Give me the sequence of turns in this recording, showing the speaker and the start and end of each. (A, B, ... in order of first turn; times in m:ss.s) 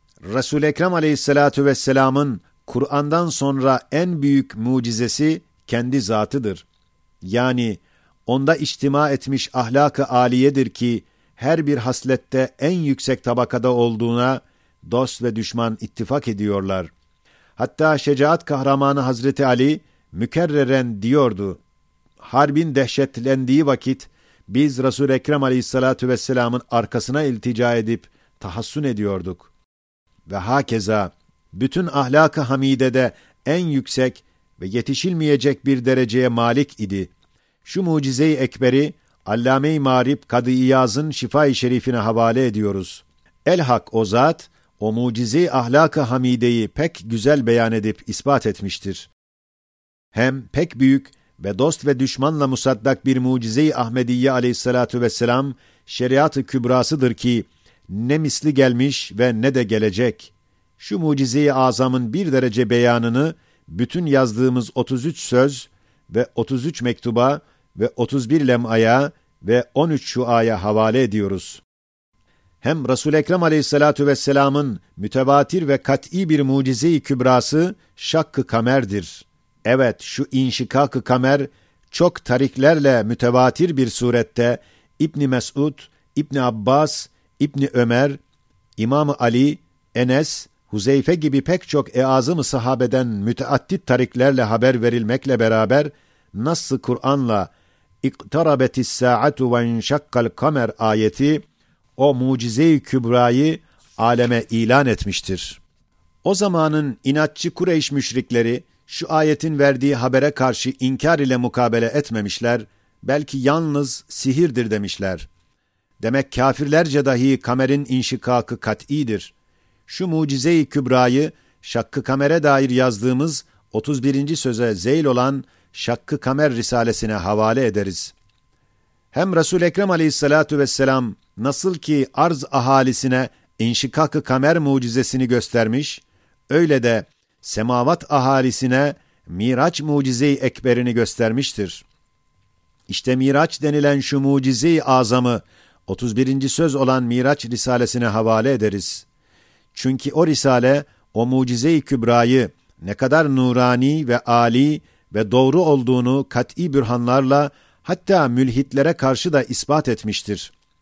0:00.2-0:06.6 A
0:07.2-0:16.9 A
0:17.6-0:21.6 A
0:22.2-0:29.5 A
0:30.3-0:37.1 A
0:37.6-0:49.1 A
0:50.1-1:11.6 A
1:12.6-1:28.2 A
1:28.8-1:37.5 A
1:38.0-1:41.5 A
1:42.0-1:45.6 A
1:46.2-1:55.3 A
1:56.0-1:59.3 A
1:59.9-2:08.2 A
2:09.1-2:21.8 A
2:22.9-2:29.1 A
2:29.7-2:40.5 A